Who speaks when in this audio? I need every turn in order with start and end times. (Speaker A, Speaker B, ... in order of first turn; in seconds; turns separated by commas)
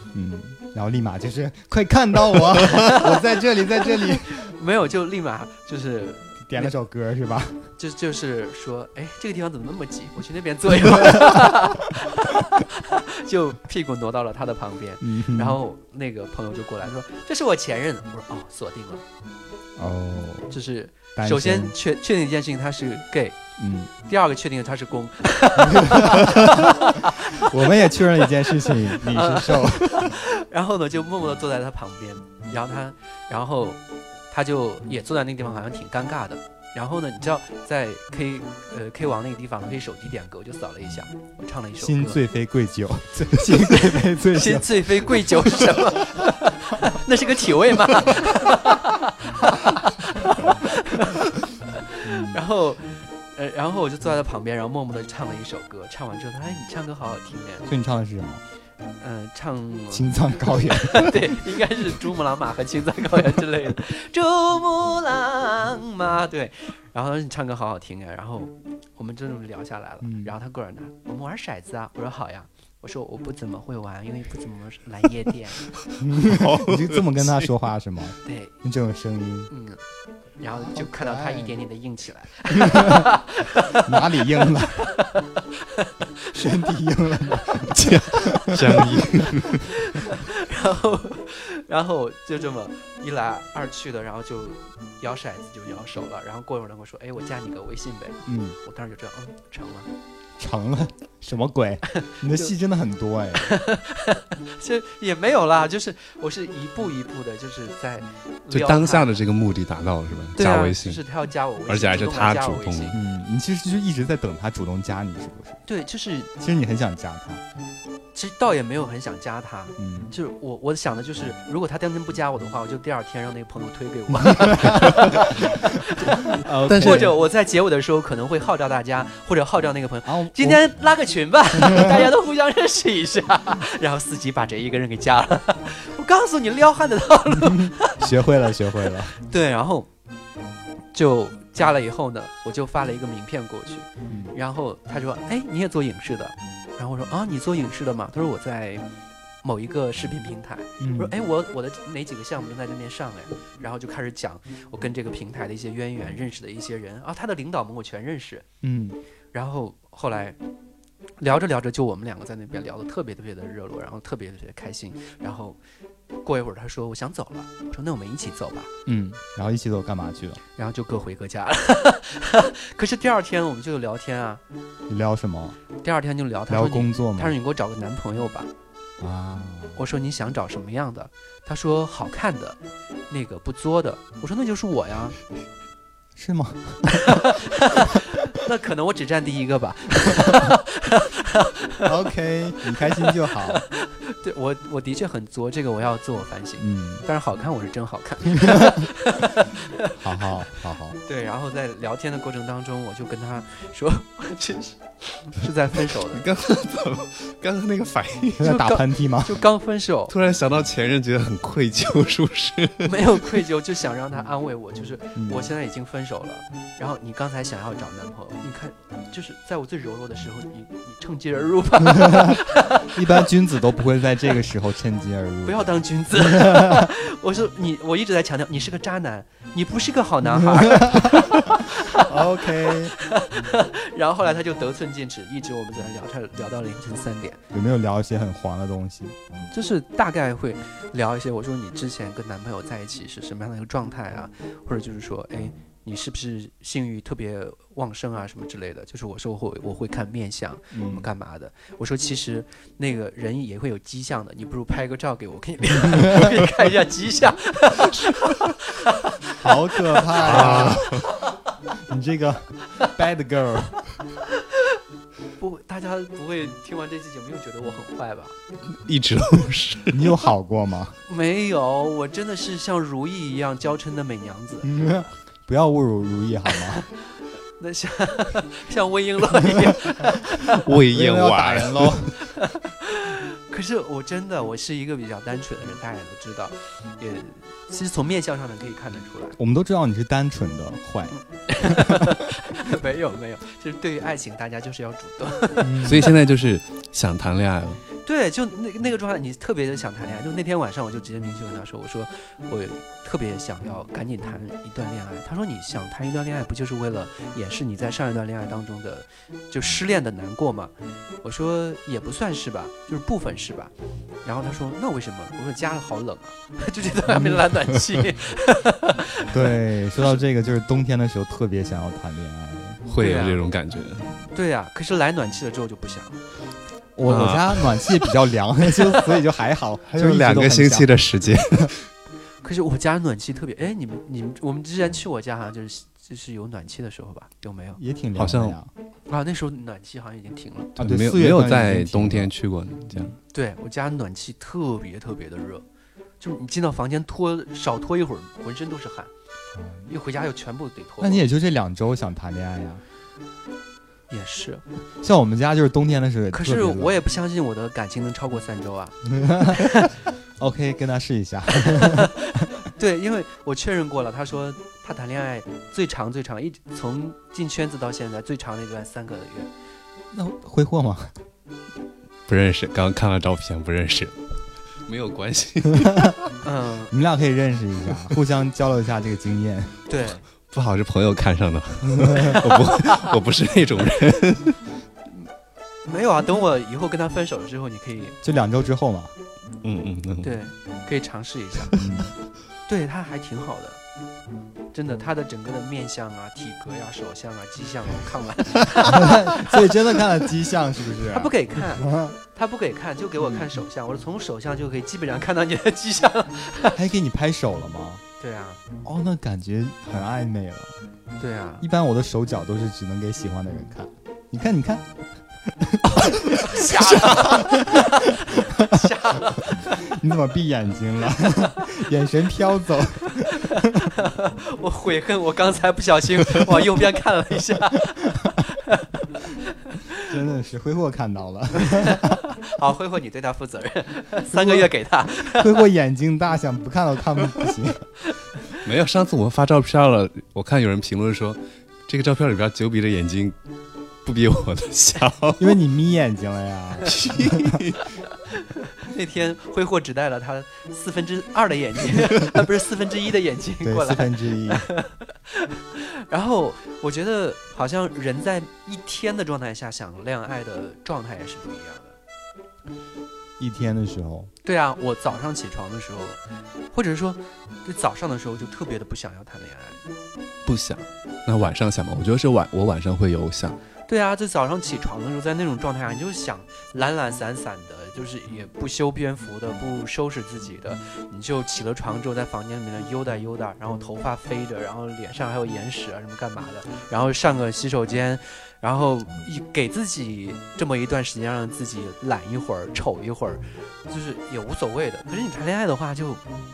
Speaker A: 0.1-4.4, Speaker B: 2.6-3.2, Speaker B: 3.9-6.7, Speaker A: 6.4-7.7, Speaker B: 7.8-19.0, Speaker A: 10.8-11.8, Speaker A: 15.0-15.6, Speaker A: 19.8-20.6, Speaker B: 20.5-23.4, Speaker A: 21.1-21.8, Speaker A: 23.6-23.9, Speaker B: 24.1-42.2, Speaker A: 25.6-30.2, Speaker A: 41.8-46.0, Speaker B: 43.5-57.7, Speaker A: 50.3-50.6, Speaker A: 52.0-52.4, Speaker A: 57.6-58.4, Speaker B: 59.0-60.1, Speaker A: 59.9-61.8, Speaker B: 60.7-75.7, Speaker A: 70.0-70.3, Speaker A: 76.0-79.5, Speaker C: 76.2-77.5, Speaker B: 78.2-78.5, Speaker B: 79.5-79.8, Speaker B: 80.4-85.9, Speaker A: 80.5-81.5, Speaker A: 82.7-83.1, Speaker A: 83.7-84.9, Speaker A: 86.3-89.6, Speaker C: 87.7-89.6, Speaker B: 89.6-99.9, Speaker A: 98.3-98.6, Speaker A: 100.4-103.5, Speaker B: 102.0-102.5, Speaker B: 103.4-109.2, Speaker C: 108.5-111.0, Speaker B: 110.4-113.0, Speaker C: 111.7-113.0, Speaker A: 112.9-115.6, Speaker B: 115.7-116.3, Speaker A: 116.4-117.4, Speaker B: 118.1-138.0, Speaker A: 119.8-120.1, Speaker A: 124.2-127.2, Speaker C: 126.7-127.1, Speaker A: 130.1-130.7, Speaker A: 131.6-132.1, Speaker A: 137.4-139.2, Speaker B: 139.2-139.9, Speaker B: 140.9-148.8, Speaker A: 144.1-144.3, Speaker B: 149.4-158.4, Speaker A: 150.8-151.1, Speaker A: 158.6-159.0, Speaker B: 159.3-160.4, Speaker B: 161.2-165.6, Speaker B: 166.2-168.7, Speaker A: 168.9-170.4, Speaker B: 170.6-174.4, Speaker A: 174.9-175.6, Speaker B: 175.8-178.5, Speaker A: 176.5-177.4, Speaker A: 179.0-179.8, Speaker B: 179.8-182.6, Speaker B: 183.1-185.2, Speaker A: 186.2-187.3, Speaker B: 186.9-191.9, Speaker A: 190.2-190.5, Speaker A: 191.8-193.6, Speaker B: 192.9-200.2, Speaker A: 196.6-197.1, Speaker A: 198.3-198.9, Speaker A: 199.9-201.0, Speaker B: 201.0-206.2, Speaker C: 206.1-208.5, Speaker A: 208.4-209.4, Speaker B: 208.4-210.1, Speaker C: 210.1-212.9, Speaker B: 212.8-223.0, Speaker A: 215.2-215.4, Speaker A: 221.9-222.4, Speaker A: 222.9-226.9, Speaker B: 225.4-237.4, Speaker A: 230.2-233.0, Speaker A: 237.5-239.2, Speaker B: 239.5-260.7, Speaker A: 250.7-251.1, Speaker A: 255.9-256.3, Speaker A: 259.4-261.0, Speaker C: 260.2-261.1, Speaker A: 261.8-264.0, Speaker B: 264.3-264.8, Speaker B: 265.4-268.3, Speaker C: 268.7-270.2, Speaker A: 269.9-271.0, Speaker B: 271.1-275.1, Speaker A: 274.6-276.9, Speaker B: 276.7-277.0, Speaker B: 277.6-280.6, Speaker C: 280.5-282.0, Speaker A: 280.8-282.2, Speaker B: 282.3-289.4, Speaker A: 289.4-292.2, Speaker B: 291.1-295.9, Speaker A: 295.6-296.1, Speaker C: 295.8-297.8, Speaker B: 298.0-310.7, Speaker B: 311.2-313.7, Speaker B: 314.2-320.2, Speaker A: 319.3-322.8, Speaker C: 322.9-324.1, Speaker B: 323.0-323.4, Speaker B: 324.3-326.2, Speaker A: 327.0-330.9, Speaker C: 327.1-328.1, Speaker C: 329.9-331.8, Speaker B: 332.4-337.8, Speaker A: 337.8-338.7, Speaker C: 338.1-338.6, Speaker B: 339.1-340.7, Speaker C: 340.8-343.1, Speaker A: 340.8-342.3, Speaker A: 342.9-343.2, Speaker B: 343.3-345.6, Speaker B: 346.2-349.1, Speaker A: 349.6-349.9, Speaker B: 349.9-351.3, Speaker A: 351.0-352.8, Speaker B: 354.1-354.6, Speaker A: 355.0-357.0, Speaker B: 356.3-360.0, Speaker A: 359.1-362.5, Speaker B: 361.6-369.5, Speaker A: 370.1-371.1, Speaker C: 372.3-374.1, Speaker C: 374.9-376.2, Speaker A: 375.9-376.1, Speaker B: 376.4-376.9, Speaker A: 376.9-379.8, Speaker B: 379.9-380.2, Speaker C: 380.5-384.6, Speaker A: 381.8-382.4, Speaker B: 385.9-388.2, Speaker A: 388.2-389.1, Speaker C: 389.6-390.4, Speaker B: 390.2-391.7, Speaker A: 391.8-392.1, Speaker B: 392.7-393.8, Speaker B: 394.7-399.7, Speaker A: 398.9-402.2, Speaker B: 401.1-406.8, Speaker A: 403.2-403.5, Speaker A: 406.7-408.0, Speaker B: 408.2-408.6, Speaker A: 408.8-410.7, Speaker B: 411.2-411.7, Speaker A: 411.6-414.9, Speaker A: 415.5-423.9, Speaker B: 415.9-419.7, Speaker B: 423.2-428.9, Speaker A: 428.1-428.4, Speaker A: 430.0-432.2, Speaker B: 431.6-435.6, Speaker A: 434.3-437.9, Speaker C: 438.6-443.4, Speaker C: 444.1-445.5, Speaker A: 445.4-447.6, Speaker C: 446.9-447.8, Speaker B: 448.6-462.0, Speaker A: 453.6-454.7, Speaker A: 463.4-464.3, Speaker B: 464.4-466.2, Speaker B: 466.7-469.8, Speaker C: 470.4-473.6, Speaker B: 473.9-496.2